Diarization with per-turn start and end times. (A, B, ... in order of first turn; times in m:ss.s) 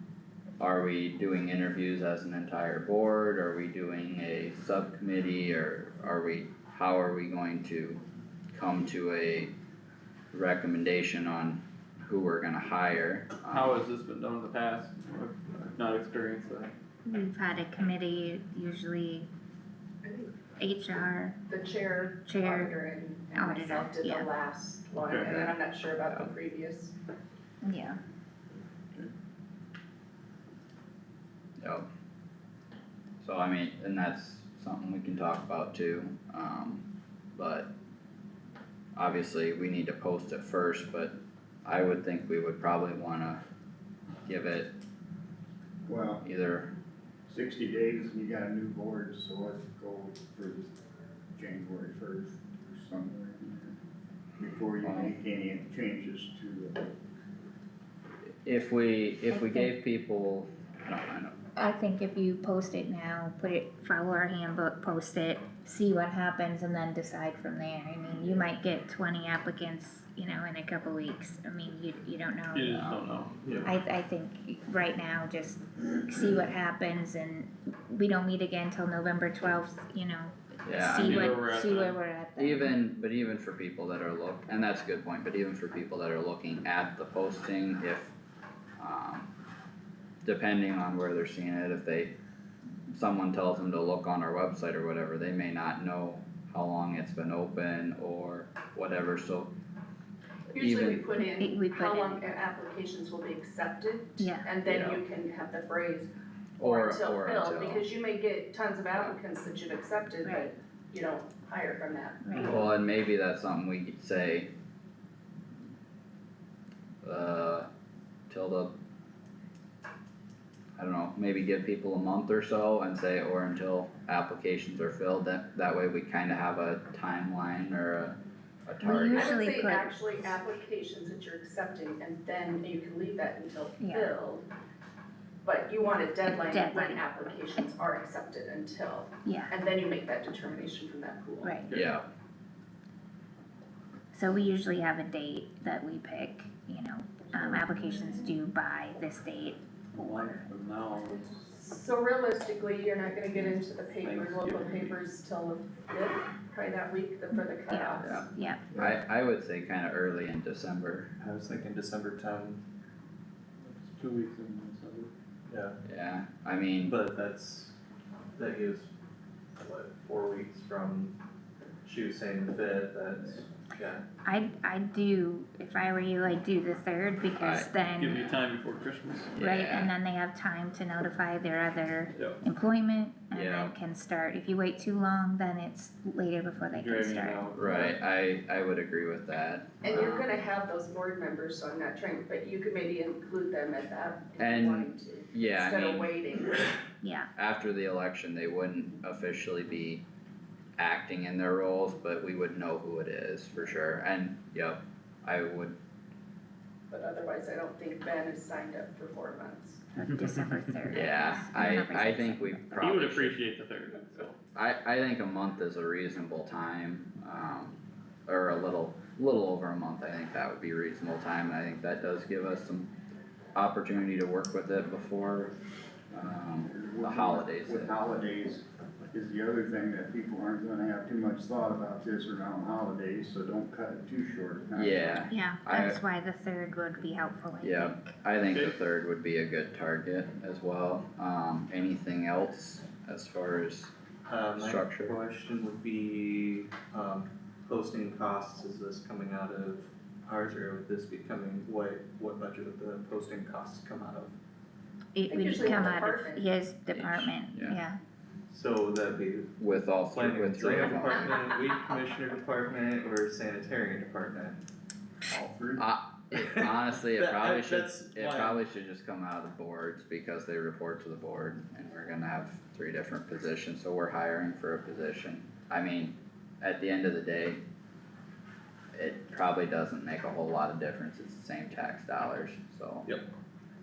0:00.6-0:08.0 A
0:08.5-0:09.5 A
0:10.3-0:13.8 A
0:13.5-0:16.7 B
0:17.0-0:19.3 C
0:20.0-0:20.4 D
0:20.6-0:21.4 C
0:21.5-0:27.0 D
0:22.2-0:22.8 C
0:23.3-0:24.3 C
0:25.0-0:25.4 B
0:25.3-0:25.5 A
0:27.6-0:28.0 C
0:31.6-0:31.9 A
0:33.2-0:36.8 A
0:37.4-0:37.7 A
0:39.0-0:43.4 A
0:44.3-0:44.7 A
0:45.8-0:46.2 E
0:46.2-0:46.7 A
0:47.3-0:50.7 E
0:51.4-0:53.8 E
0:54.4-0:56.9 E
0:54.8-0:55.1 A
0:58.4-1:01.3 A
0:59.3-0:59.7 C
1:01.6-1:13.0 C
1:12.5-1:13.3 B
1:12.7-1:13.0 A
1:13.4-1:13.7 F
1:13.6-1:22.8 C
1:20.7-1:21.4 A
1:21.0-1:22.0 B
1:22.4-1:28.1 A
1:28.8-1:29.3 A
1:30.2-1:32.1 A
1:32.9-1:39.5 A
1:40.6-1:52.6 D
1:40.6-1:41.0 A
1:41.2-1:42.2 C
1:44.2-1:44.5 C
1:44.6-1:45.0 A
1:46.6-1:47.9 A
1:50.2-1:50.5 C
1:52.2-1:52.6 C
1:52.4-1:54.5 A
1:57.0-1:57.7 A
1:58.3-1:58.7 A
2:00.8-2:08.2 A
2:08.7-2:09.4 A
2:08.8-2:10.0 C
2:09.1-2:14.4 D
2:13.8-2:14.2 C
2:15.4-2:21.6 D
2:16.3-2:17.1 C
2:19.3-2:19.5 C
2:21.4-2:21.7 C
2:21.7-2:22.1 A
2:24.1-2:30.5 C
2:30.0-2:31.3 B
2:31.3-2:38.2 D
2:33.4-2:35.0 B
2:37.7-2:38.6 C
2:38.0-2:41.1 A
2:41.2-2:42.6 F
2:43.6-2:45.1 B
2:45.5-2:45.8 F
2:45.9-2:47.0 A
2:46.9-2:47.8 F
2:48.4-2:48.9 F
2:49.6-2:51.2 F
2:51.8-2:54.0 F
2:54.2-2:58.4 C
2:57.4-2:58.3 A
2:58.0-2:59.3 B
2:59.4-2:59.9 A
2:59.4-3:07.5 C
3:03.3-3:03.8 A
3:06.7-3:08.0 B
3:07.5-3:10.3 A
3:09.8-3:16.8 D
3:14.4-3:16.1 A
3:17.0-3:17.3 C
3:17.4-3:20.0 A
3:20.8-3:25.8 A
3:26.9-3:29.8 D
3:29.9-3:32.9 C
3:30.1-3:30.8 B
3:30.9-3:33.4 A
3:32.8-3:34.4 B
3:34.6-3:37.8 A
3:38.3-3:42.9 A
3:43.6-3:45.5 A
3:46.1-3:48.0 A
3:46.7-3:55.0 E
3:54.8-3:56.0 A
3:55.3-3:58.2 C
3:57.6-4:03.9 A
3:58.5-3:58.8 B
4:04.3-4:14.4 F
4:04.6-4:05.2 A
4:15.2-4:18.0 C
4:15.3-4:16.5 D
4:16.9-4:17.8 A
4:18.5-4:19.5 F
4:19.6-4:21.3 A
4:20.1-4:24.6 F
4:25.3-4:25.8 E
4:25.8-4:37.6 A
4:26.3-4:28.6 F
4:38.9-4:43.1 A